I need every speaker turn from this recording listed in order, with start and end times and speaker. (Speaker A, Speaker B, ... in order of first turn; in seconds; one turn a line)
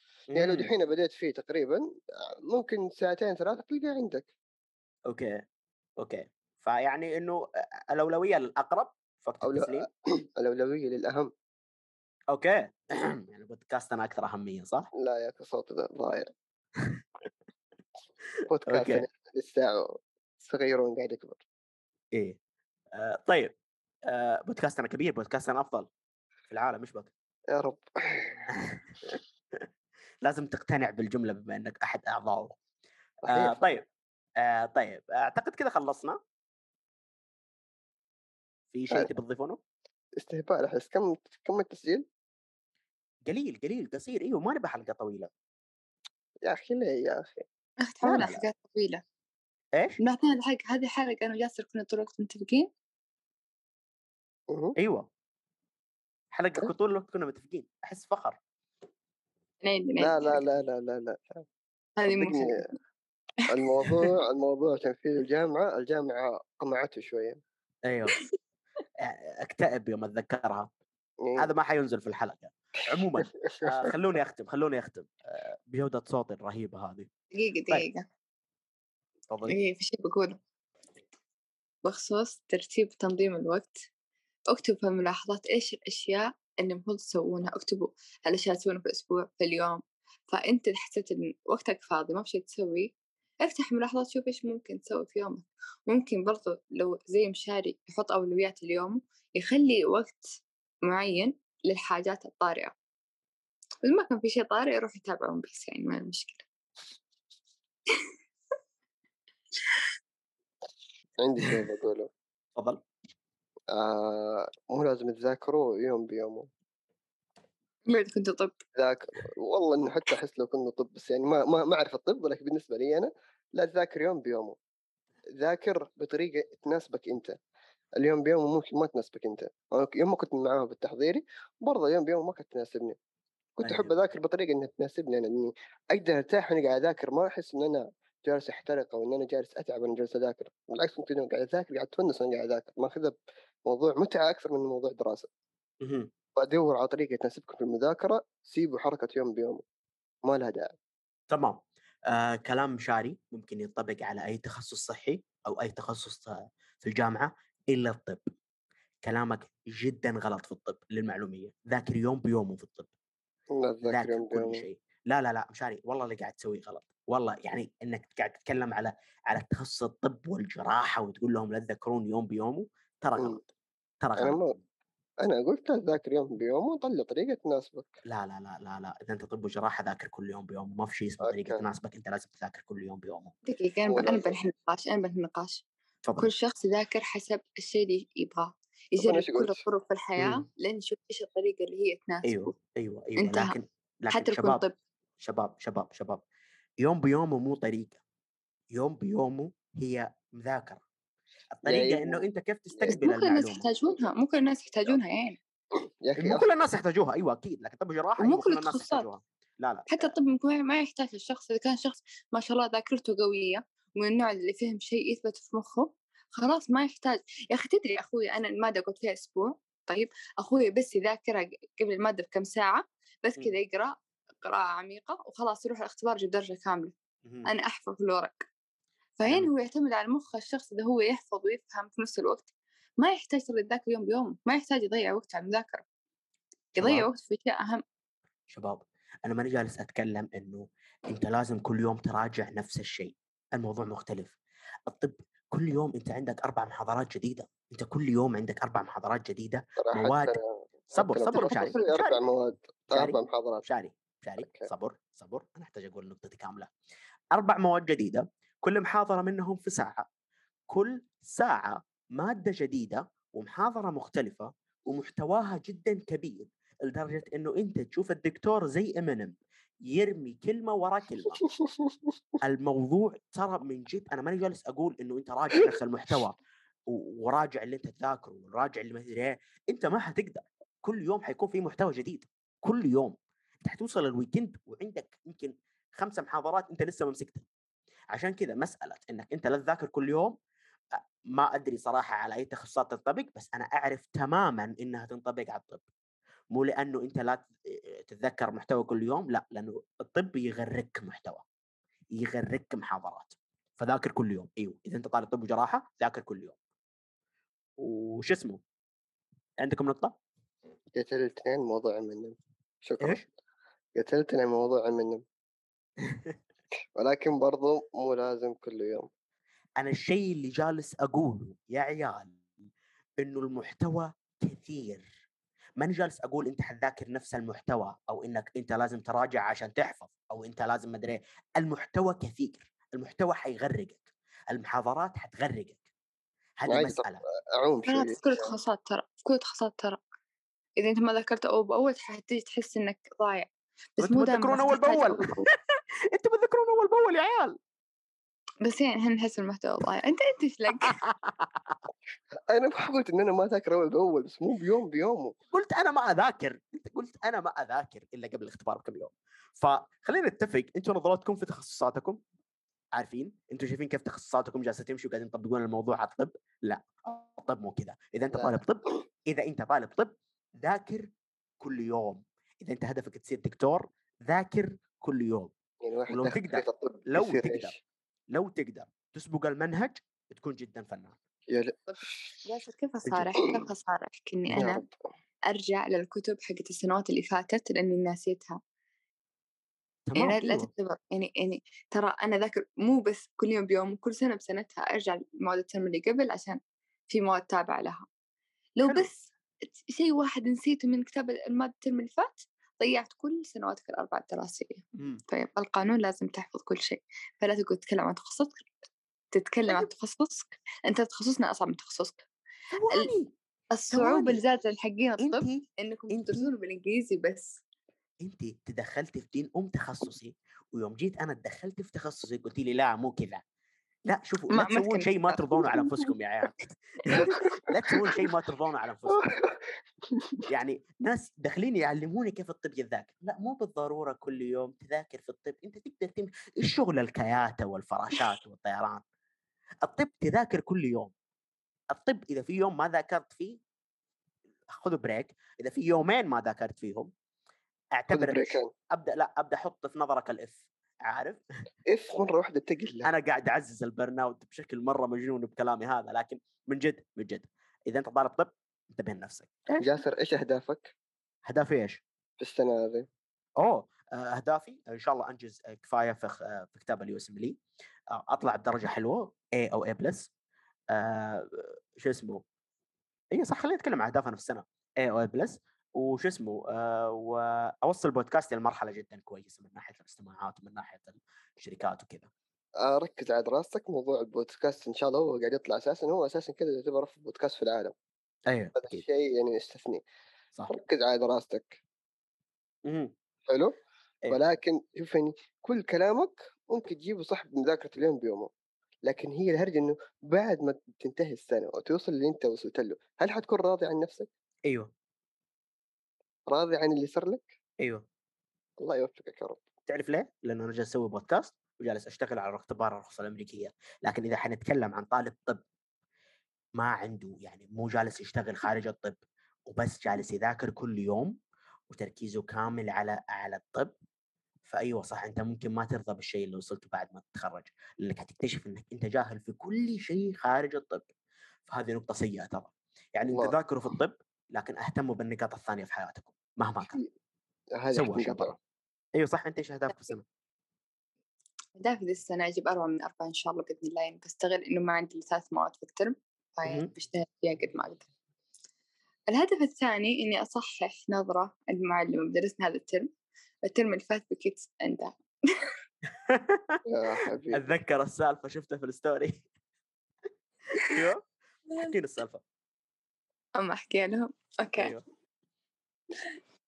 Speaker A: 0.3-0.7
Speaker B: 0.3-4.3
Speaker A: 5.1-5.4
Speaker A: 6.0-9.9
Speaker B: 9.4-11.3
Speaker A: 12.3-14.9
Speaker B: 15.0-16.3
Speaker B: 18.5-21.4
Speaker A: 18.7-19.1
Speaker A: 22.9-23.5
Speaker A: 24.1-25.9
Speaker A: 26.5-27.1
Speaker B: 27.5-28.5
Speaker A: 28.5-29.7
Speaker A: 30.2-32.5
Speaker B: 33.3-33.6
Speaker A: 33.3-33.9
Speaker A: 34.4-36.2
Speaker A: 38.7-39.6
Speaker B: 40.2-42.1
Speaker A: 43.3-45.3
Speaker B: 46.5-47.5
Speaker C: 47.8-49.0
Speaker A: 48.0-48.5
Speaker C: 50.0-52.7
Speaker B: 54.5-54.8
Speaker A: 54.8-55.1
Speaker A: 56.3-58.4
Speaker C: 59.6-60.4
Speaker B: 60.0-61.5
Speaker C: 62.0-62.7
Speaker B: 62.1-62.6
Speaker B: 63.5-67.4
Speaker A: 67.8-68.2
Speaker A: 69.0-70.7
Speaker B: 71.2-71.5
Speaker A: 71.4-77.1
Speaker B: 73.3-73.9
Speaker C: 77.3-78.1
Speaker A: 79.3-79.6
Speaker C: 79.5-80.4
Speaker C: 81.8-83.8
Speaker C: 84.5-92.9
Speaker C: 93.4-100.2
Speaker C: 100.9-102.7
Speaker C: 103.8-106.5
Speaker C: 109.6-109.9
Speaker B: 111.2-112.1
Speaker A: 112.6-112.8
Speaker B: 113.7-116.5
Speaker C: 117.9-118.6
Speaker B: 118.8-124.6
Speaker B: 125.4-127.4
Speaker B: 128.0-133.0
Speaker B: 133.6-143.2
Speaker A: 133.6-133.9
Speaker B: 143.7-145.3
Speaker A: 145.8-146.1
Speaker B: 146.4-149.6
Speaker B: 150.3-150.7
Speaker A: 151.3-158.2
Speaker A: 159.0-162.9
Speaker B: 163.6-164.7
Speaker A: 163.9-173.5
Speaker A: 174.0-174.6
Speaker B: 174.2-174.6
Speaker B: 175.2-178.0
Speaker A: 178.1-183.3
Speaker B: 181.2-181.6
Speaker C: 183.5-185.6
Speaker B: 183.9-184.4
Speaker A: 186.1-186.3
Speaker C: 186.2-192.3
Speaker B: 189.0-189.6
Speaker A: 190.2-190.4
Speaker A: 192.2-194.6
Speaker C: 193.2-193.5
Speaker C: 194.1-194.7
Speaker A: 195.2-196.2
Speaker A: 196.8-198.0
Speaker A: 198.7-200.8
Speaker A: 201.6-203.7
Speaker B: 201.7-202.2
Speaker C: 202.9-205.4
Speaker B: 205.8-206.5
Speaker A: 206.2-210.2
Speaker C: 208.2-209.1
Speaker C: 209.9-228.5
Speaker C: 229.2-235.8
Speaker A: 229.2-229.5
Speaker C: 236.8-237.8
Speaker A: 236.8-237.1
Speaker A: 238.5-244.4
Speaker A: 244.9-250.4
Speaker B: 249.8-253.6
Speaker A: 250.9-252.2
Speaker A: 252.9-256.7
Speaker B: 254.4-254.7
Speaker A: 257.3-260.1
Speaker A: 260.7-269.4
Speaker A: 269.9-271.4
Speaker B: 271.6-271.9
Speaker A: 272.4-276.4
Speaker A: 276.9-287.5
Speaker A: 288.1-290.4
Speaker A: 290.9-295.8
Speaker A: 296.5-301.4
Speaker A: 302.1-306.6
Speaker A: 307.8-308.6
Speaker A: 309.6-310.2
Speaker B: 311.0-313.3
Speaker B: 314.0-315.2
Speaker A: 316.1-316.3
Speaker B: 317.0-319.1
Speaker A: 319.8-322.4
Speaker A: 323.2-325.1
Speaker A: 325.8-335.8
Speaker A: 336.6-337.2
Speaker B: 336.7-338.5
Speaker C: 337.9-340.0
Speaker C: 340.8-345.4
Speaker A: 344.0-345.4
Speaker A: 346.1-347.6
Speaker C: 348.6-351.0
Speaker A: 350.8-351.8
Speaker B: 352.4-355.4
Speaker A: 355.5-362.2
Speaker A: 362.9-375.5
Speaker B: 368.3-368.6
Speaker B: 375.8-377.8
Speaker A: 376.1-377.8
Speaker A: 378.3-381.2
Speaker B: 381.5-382.3
Speaker C: 381.9-384.8
Speaker B: 384.6-384.9
Speaker C: 385.5-388.6
Speaker A: 390.1-390.7
Speaker C: 390.2-398.1
Speaker C: 398.8-399.3
Speaker A: 398.8-399.1
Speaker C: 399.8-408.7
Speaker A: 405.0-405.2
Speaker C: 409.3-412.3
Speaker A: 412.7-413.3
Speaker C: 413.7-417.6
Speaker A: 413.9-414.4
Speaker A: 415.2-415.6
Speaker A: 416.1-416.5
Speaker A: 418.2-423.4
Speaker A: 424.1-429.2
Speaker C: 424.5-425.6
Speaker B: 429.1-430.4
Speaker A: 430.5-439.0
Speaker A: 439.8-441.1
Speaker A: 441.9-443.6
Speaker A: 444.7-447.1
Speaker A: 447.9-451.4
Speaker B: 448.1-448.7
Speaker B: 451.9-453.1
Speaker A: 453.0-459.8
Speaker B: 459.8-460.9
Speaker A: 461.5-462.0
Speaker B: 462.4-463.1
Speaker A: 463.6-467.6
Speaker A: 468.1-470.3
Speaker A: 470.9-472.4
Speaker A: 473.3-482.3
Speaker B: 482.8-487.9
Speaker A: 488.5-489.0
Speaker B: 488.8-490.0
Speaker B: 490.7-491.8
Speaker A: 492.9-493.1
Speaker B: 493.5-493.8
Speaker B: 494.3-498.5
Speaker B: 499.1-504.3
Speaker B: 506.5-507.5
Speaker B: 508.8-509.6
Speaker A: 509.9-515.6
Speaker A: 516.8-519.2
Speaker A: 519.7-521.4
Speaker A: 521.9-523.9
Speaker A: 524.7-531.1
Speaker A: 531.7-537.0
Speaker B: 537.8-538.5
Speaker A: 537.9-538.6
Speaker A: 539.2-540.2
Speaker C: 541.8-548.0
Speaker A: 546.6-546.9
Speaker C: 549.3-553.1
Speaker C: 553.6-555.7
Speaker A: 556.2-556.8
Speaker B: 556.9-557.6
Speaker A: 557.5-559.5
Speaker A: 560.7-561.2
Speaker A: 561.8-562.4
Speaker C: 563.6-565.0
Speaker A: 564.8-565.0